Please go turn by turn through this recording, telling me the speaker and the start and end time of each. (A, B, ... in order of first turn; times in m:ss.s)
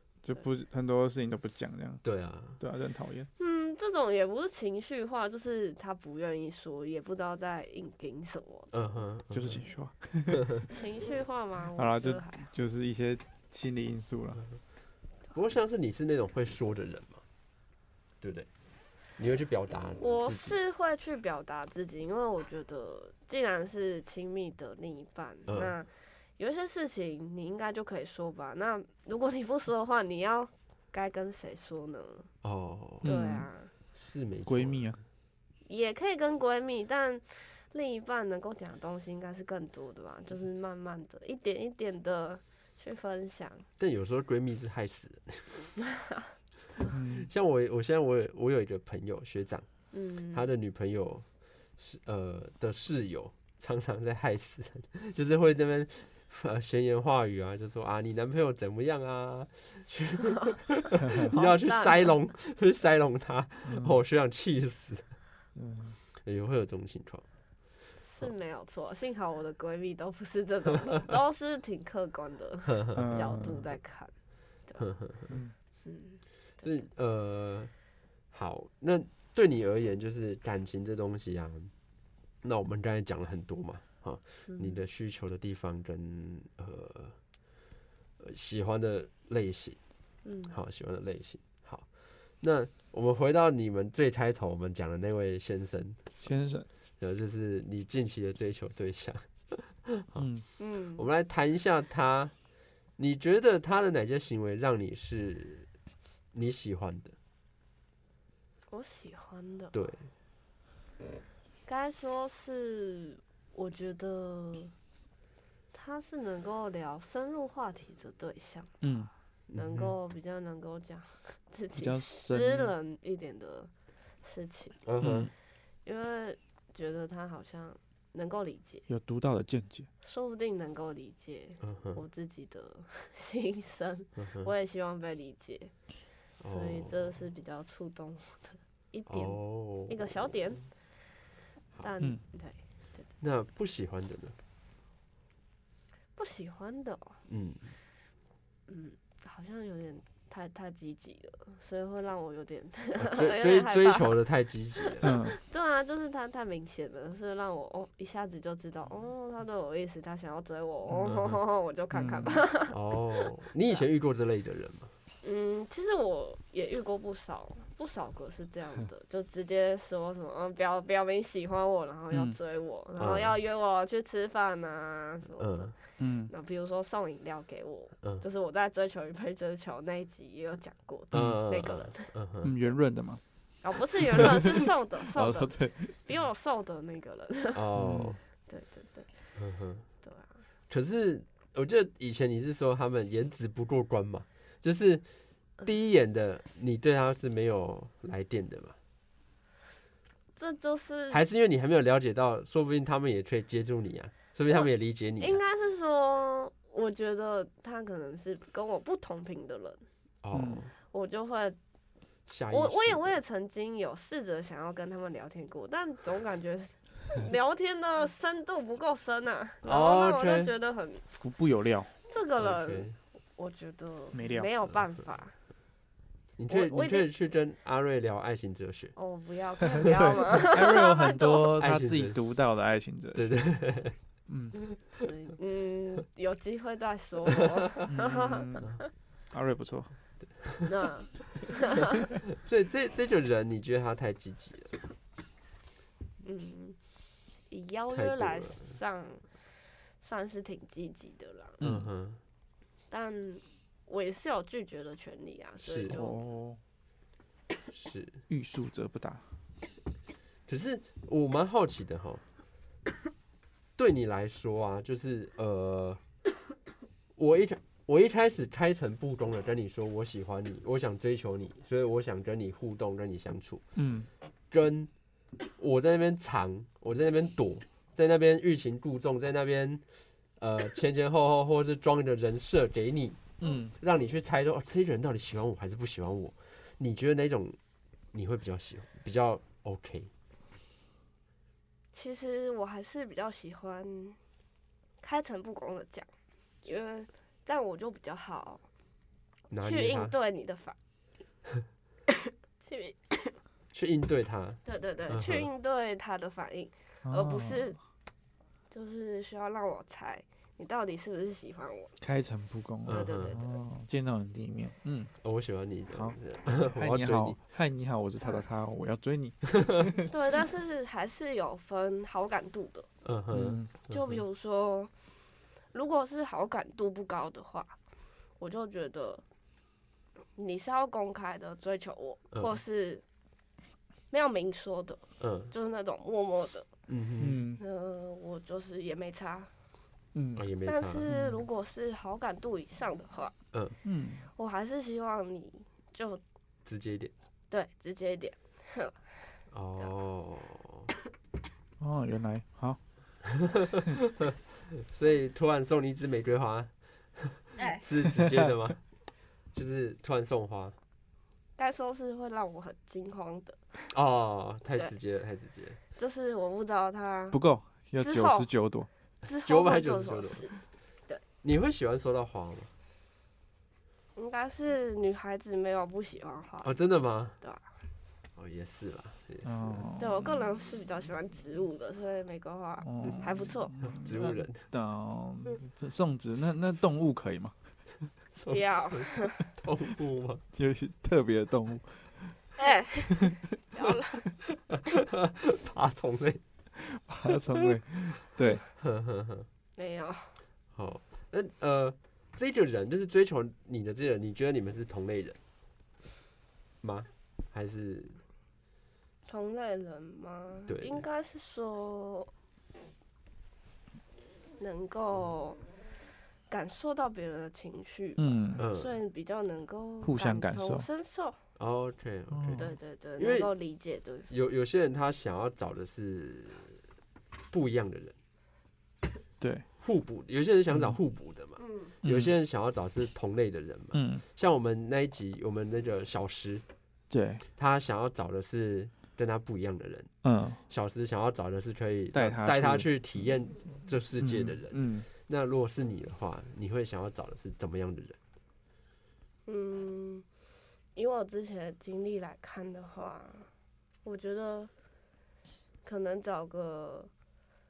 0:00.2-0:02.0 A
0:02.0-0:02.6 B
0:02.6-0:03.3 A
0:03.4-0:08.7 C
0:08.7-0:09.6 B
0:09.3-0:10.6 A
0:10.7-0:12.5 C
0:11.8-0:14.4 A
0:15.3-0:17.2 B
0:18.2-0:18.5 B
0:19.2-0:20.6 B
0:20.0-0:32.3 C
0:25.5-0:25.7 B
0:32.4-0:33.1 B
0:33.0-0:33.5 A
0:33.0-0:33.7 C
0:34.0-0:34.9 B
0:34.5-0:35.0 A
0:35.7-0:43.7 C
0:43.8-0:45.6 B
0:45.9-0:46.3 C
0:46.9-0:47.3 A
0:47.1-0:49.7 B
0:49.9-0:50.4 C
0:50.3-0:51.3 B
0:51.8-1:05.1 B
1:00.3-1:00.6 C
1:01.1-1:02.1 C
1:03.6-1:04.0 A
1:05.6-1:06.0 A
1:06.2-1:07.2 B
1:08.0-1:14.1 C
1:12.8-1:13.0 B
1:13.0-1:13.6 A
1:14.8-1:15.4 B
1:15.8-1:16.8 C
1:16.6-1:17.7 B
1:18.3-1:21.7 B
1:22.4-1:27.2 B
1:24.5-1:24.8 C
1:28.2-1:29.8 B
1:30.2-1:30.6 C
1:30.5-1:36.2 B
1:36.2-1:36.7 A
1:37.0-1:40.3 B
1:40.2-1:40.4 A
1:40.6-1:41.0 C
1:41.0-1:42.3 B
1:43.0-1:45.7 B
1:46.3-1:47.2 B
1:48.7-1:49.8 C
1:49.7-1:50.1 B
1:51.7-1:54.7 C
1:55.7-1:58.7 C
1:58.8-1:59.1 A
1:59.5-2:00.0 B
1:59.5-2:03.7 C
2:01.8-2:02.7 A
2:04.2-2:04.8 C
2:04.8-2:05.3 B
2:05.0-2:05.3 A
2:05.8-2:08.9 C
2:08.9-2:09.9 A
2:10.0-2:15.7 C
2:11.6-2:12.0 B
2:14.2-2:14.5 B
2:16.4-2:17.1 B
2:16.5-2:20.7 C
2:19.1-2:20.0 B
2:21.8-2:23.1 C
2:23.2-2:24.4 B
2:26.2-2:27.2 C
2:27.3-2:27.8 B
2:28.7-2:34.2 C
2:33.0-2:35.1 B
2:34.8-2:43.8 C
2:35.0-2:35.4 A
2:41.0-2:41.4 B
2:41.9-2:42.4 A
2:42.7-2:44.9 B
2:45.2-2:55.7 C
2:52.1-2:52.4 A
2:53.0-2:53.4 B
2:55.4-2:55.7 B
2:56.0-2:56.3 A
2:56.3-3:02.1 C
3:01.1-3:01.4 A
3:01.1-3:02.6 B
3:02.4-3:03.2 A
3:03.6-3:07.6 C
3:04.1-3:05.9 A
3:07.5-3:08.2 B
3:07.8-3:08.2 A
3:08.5-3:09.4 C
3:09.4-3:09.9 B
3:10.0-3:10.4 C
3:10.7-3:15.0 B
3:15.6-3:18.8 B
3:20.4-3:21.2 C
3:21.1-3:25.4 B
3:25.2-3:29.8 C
3:30.2-3:30.7 B
3:30.3-3:30.6 A
3:30.9-3:31.6 C
3:32.3-3:33.1 B
3:32.5-3:41.0 C
3:39.6-3:40.5 B
3:41.2-3:41.9 A
3:42.1-3:45.4 C
3:42.4-3:43.0 B
3:44.1-3:44.5 A
3:46.4-3:49.0 B
3:46.5-3:47.1 C
3:49.0-3:51.5 C
3:49.8-3:53.3 A
3:51.6-3:52.2 B
3:53.2-3:54.0 B
3:54.3-3:54.6 A
3:55.0-3:58.8 C
3:57.9-3:58.7 A
3:59.3-3:59.9 A
4:00.2-4:00.7 B
4:00.7-4:01.8 C
4:02.3-4:04.8 B
4:06.2-4:06.8 C
4:07.5-4:09.2 C
4:07.9-4:08.7 B
4:10.0-4:11.6 C
4:11.6-4:11.9 A
4:11.6-4:12.2 B
4:12.9-4:16.2 C
4:15.6-4:16.0 B
4:15.9-4:16.6 A
4:17.7-4:18.2 B
4:18.3-4:19.2 A
4:20.5-4:22.2 B
4:23.8-4:26.0 B
4:27.2-4:33.6 B
4:33.8-4:34.1 A
4:34.5-4:34.9 B
4:35.6-4:39.8 B
4:40.4-4:47.6 B
4:43.4-4:43.7 A
4:48.1-4:50.1 B
4:51.9-4:54.2 C
4:55.0-4:56.1 C
4:56.6-4:58.6 C
4:59.5-5:00.2 B
4:59.6-5:00.8 C
5:02.3-5:03.4 C
5:03.7-5:05.5 B
5:04.6-5:07.8 C
5:07.0-5:07.8 A
5:08.7-5:12.0 C
5:12.0-5:15.1 A
5:12.9-5:13.4 B
5:12.9-5:13.6 C
5:15.2-5:17.4 B
5:15.9-5:20.1 A
5:20.1-5:22.9 C
5:23.0-5:24.2 B
5:23.3-5:23.7 A
5:23.9-5:24.9 C
5:25.7-5:27.8 C
5:28.4-5:29.2 C
5:30.4-5:33.0 C
5:32.3-5:32.6 B
5:34.1-5:36.7 C
5:35.2-5:35.5 B
5:36.9-5:37.4 B
5:37.2-5:37.6 A
5:37.6-5:39.5 C
5:40.1-5:40.5 A
5:40.4-5:41.0 B
5:40.6-5:43.4 C
5:41.1-5:41.4 A
5:43.8-5:44.3 A
5:44.4-5:46.2 C
5:46.7-5:47.1 B
5:47.5-5:49.4 C
5:49.5-5:50.9 B
5:51.8-5:52.8 A
5:53.2-5:58.8 B
5:57.6-5:57.8 C
5:58.1-5:58.5 A
5:59.5-6:00.8 B
6:01.6-6:03.9 C
6:03.9-6:05.8 B
6:06.0-6:07.4 C
6:07.3-6:08.9 A
6:08.0-6:08.5 C
6:09.2-6:11.2 C
6:09.2-6:10.5 B
6:11.4-6:12.7 B
6:14.2-6:16.8 C
6:16.6-6:17.4 B
6:17.4-6:17.6 C
6:18.4-6:19.9 B
6:19.4-6:20.3 A
6:20.0-6:23.7 C
6:22.8-6:27.5 A
6:23.8-6:24.6 B
6:28.4-6:30.4 B
6:28.5-6:29.5 C
6:30.6-6:32.4 A
6:32.6-6:34.3 C
6:33.1-6:33.4 A
6:34.7-6:36.4 B
6:36.8-6:38.6 A
6:37.5-6:37.8 B
6:38.8-6:39.5 B
6:39.8-6:40.4 C
6:40.7-6:45.4 B
6:46.8-6:48.2 B
6:49.3-6:52.3 C
6:50.7-6:51.0 B
6:54.6-6:55.6 C
6:56.5-7:01.4 C
6:58.2-6:58.6 A
6:58.6-6:59.0 B
7:00.0-7:00.9 A
7:01.6-7:03.5 B
7:02.3-7:02.7 A
7:02.6-7:04.3 C
7:04.3-7:06.8 B
7:07.5-7:08.2 B
7:09.4-7:09.7 A
7:09.8-7:16.6 B
7:10.7-7:11.0 A
7:11.6-7:11.9 C
7:12.0-7:12.3 A
7:13.9-7:14.2 A
7:17.1-7:17.4 A
7:17.6-7:20.1 B
7:20.2-7:20.6 A
7:20.7-7:28.2 B
7:22.1-7:23.1 A
7:24.2-7:25.1 A
7:29.5-7:30.3 C
7:31.0-7:33.5 C
7:34.0-7:34.7 C
7:35.8-7:37.1 C